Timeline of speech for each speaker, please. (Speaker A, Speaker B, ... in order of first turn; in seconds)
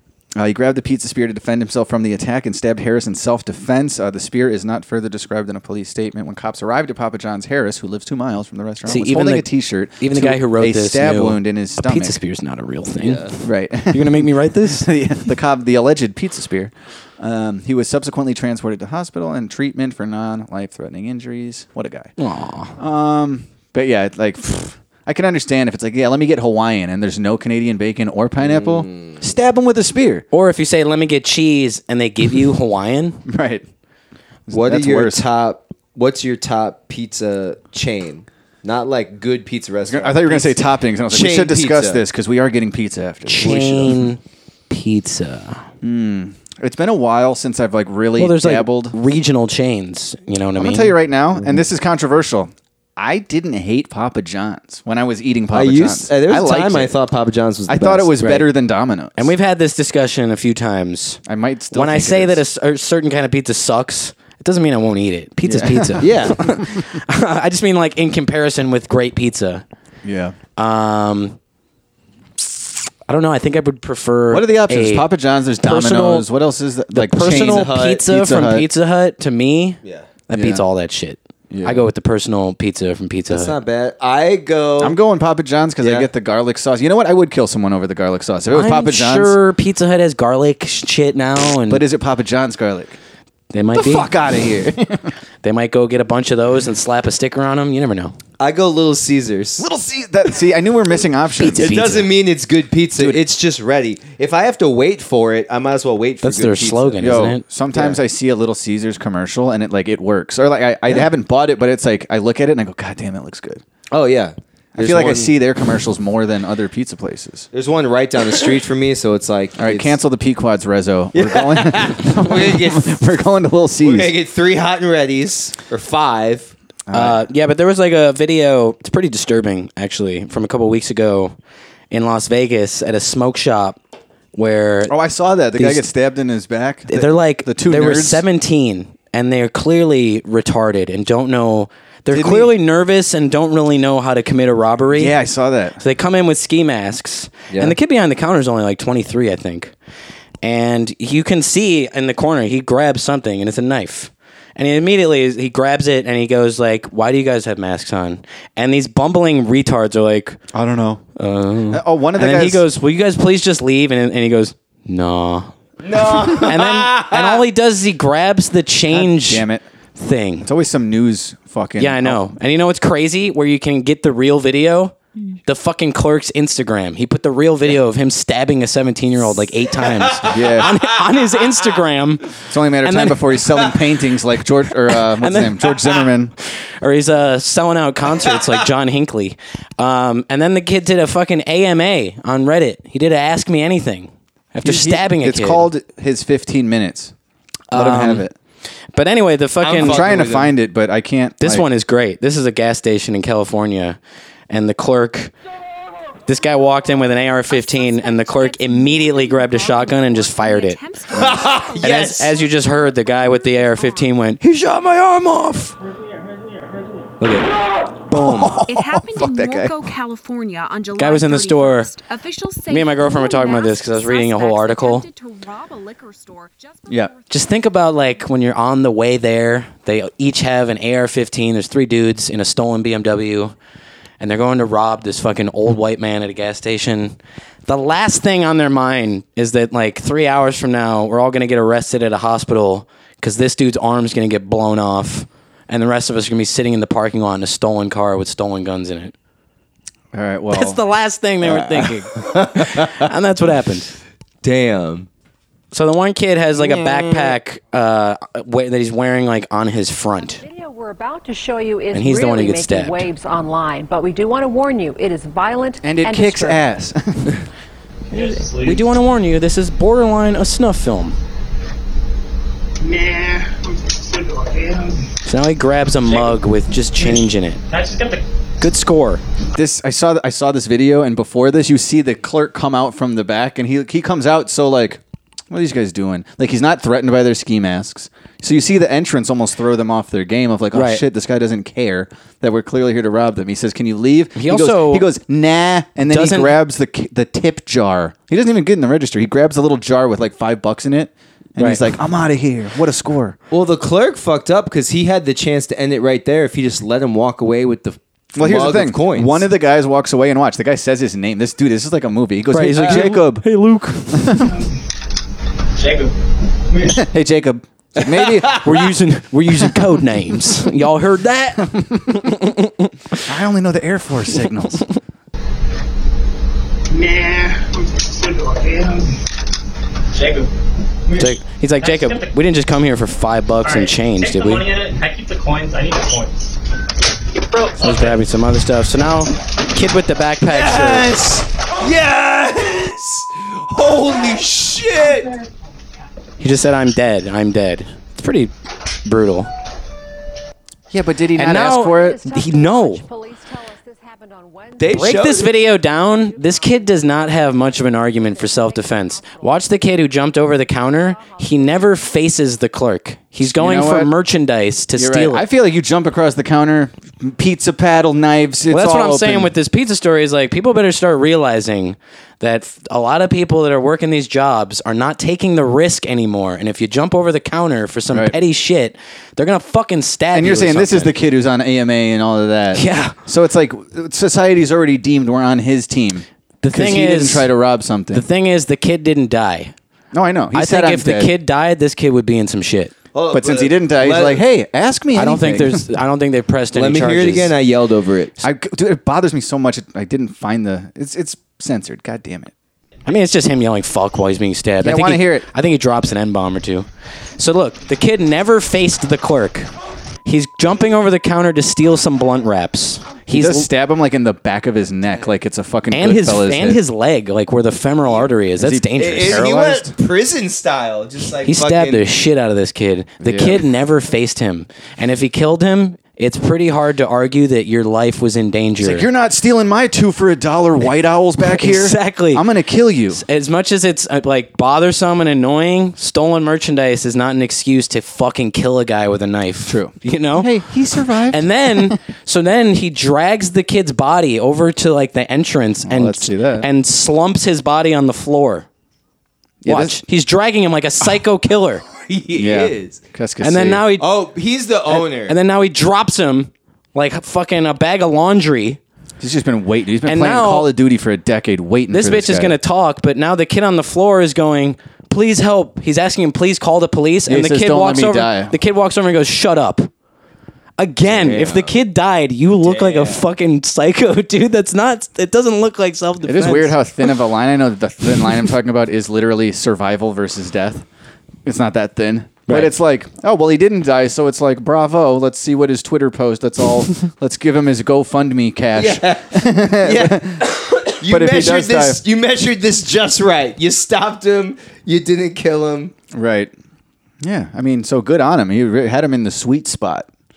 Speaker A: 0.4-12.2, 13.4-22.1, 22.8-30.2, 33.2-33.6, 34.5-35.2, 39.9-43.6, 45.8-49.0, 50.6-57.0, 57.7-59.3, 61.3-62.4, 65.4-66.8, 70.0-70.4, 74.3-78.7, 80.3-80.6, 81.5-81.9, 84.8-89.4, 91.7-93.0, 93.7-95.1, 99.6-102.0, 103.0-103.2, 107.0-113.6, 114.8-117.5, 119.6-124.1, 126.9-127.2, 134.9-138.2, 142.1-142.5, 144.9-145.8, 160.5-161.0, 161.7-162.6, 168.9-169.6, 170.4-172.3, 180.3-180.9, 182.5-186.3, 194.6-197.1, 197.7-198.3, 199.8-201.7, 218.1-219.9, 250.1-250.8, 251.4-252.0, 265.8-267.4, 279.6-303.4, 308.4-313.5, 314.1-314.5, 316.9-318.6, 321.6-322.2, 323.3-324.9, 350.9-352.2, 363.4-364.1, 364.9-369.5, 378.1-378.4, 380.3-388.2, 390.1-391.3, 393.3-395.9, 398.4-402.5, 404.8-405.5, 413.3-416.8, 418.6-419.9, 423.2-423.6, 428.8-433.2, 439.7-442.0, 445.9-446.7, 449.6-450.0, 452.4-453.9, 459.2-462.6, 467.3-468.6, 476.2-480.9, 481.4-490.5, 491.0-492.0, 496.1-496.5, 497.2-500.1
Speaker B: 8.9-14.9, 22.2-22.7, 30.3-33.2, 43.3-45.7, 48.2-51.0, 59.2-61.2, 61.7-69.6, 70.6-71.4, 73.1-75.1, 75.6-76.3, 76.9-83.5, 88.5-91.8, 93.5-94.1, 95.4-98.2, 101.4-102.1, 106.2-107.4, 126.9-131.3, 131.9-133.8, 134.3-134.9, 135.6-135.9, 136.9-145.1, 145.8-149.7, 150.4-160.4, 161.2-165.5, 166.3-169.4, 170.0-170.5, 171.8-182.3, 182.8-183.4, 185.2-185.8, 186.5-195.7, 197.7-198.2, 198.9-200.1, 201.4-204.0, 204.5-205.3, 206.3-210.8, 211.8-214.8, 217.2-217.5, 220.9-221.9, 222.7-225.1, 227.3-233.6, 234.2-249.1, 250.5-253.9, 255.7-260.4, 261.9-263.1, 268.1-271.2, 275.3-277.6, 278.6-279.2, 290.7-291.0, 294.4-295.1, 296.1-296.6, 301.6-301.9, 312.5-314.4, 318.6-323.3, 324.7-325.0, 331.1-334.7, 337.8-341.2, 346.4-348.5, 349.1-349.5, 351.4-353.0, 354.9-365.4, 368.7-381.1, 382.7-383.2, 386.6-387.5, 388.1-389.7, 390.5-392.9, 395.1-397.5, 403.1-406.9, 407.4-409.7, 410.2-413.7, 415.9-419.7, 421.4-429.1, 431.4-432.4, 433.1-440.5, 441.3-448.7, 449.7-451.8, 453.4-454.1, 454.9-458.8, 460.1-460.7, 461.9-469.9, 470.8-477.0, 482.5-482.8
Speaker C: 13.0-13.3, 28.4-29.2, 34.5-40.6, 41.1-42.1, 43.3-44.1, 55.5-58.5, 66.0-66.4, 77.2-78.1, 83.3-85.0, 85.8-86.1, 98.4-99.7, 101.4-107.1, 107.7-108.0, 113.9-115.4, 117.5-120.0, 121.2-123.0, 123.8-126.5, 147.5-147.8, 165.8-167.4, 179.9-180.6, 199.6-200.5, 211.1-212.3, 218.1-218.6, 252.2-252.9, 254.4-255.1, 256.6-257.4, 303.5-309.5, 318.1-318.7, 340.5-345.3, 354.8-355.5, 393.1-394.4, 396.7-398.3, 419.0-422.0, 452.1-453.0, 454.0-455.4, 471.2-471.7, 472.6-473.2, 488.8-495.9
Speaker D: 207.5-214.1, 218.7-228.1
Speaker E: 260.1-266.6, 351.6-362.3
Speaker F: 268.1-268.9, 272.8-275.1, 276.1-276.4, 276.9-278.2, 314.4-314.8, 315.8-316.1, 316.7-317.0, 326.9-329.1, 330.1-330.5, 331.1-332.3, 333.6-336.6, 337.3-338.2, 345.2-345.4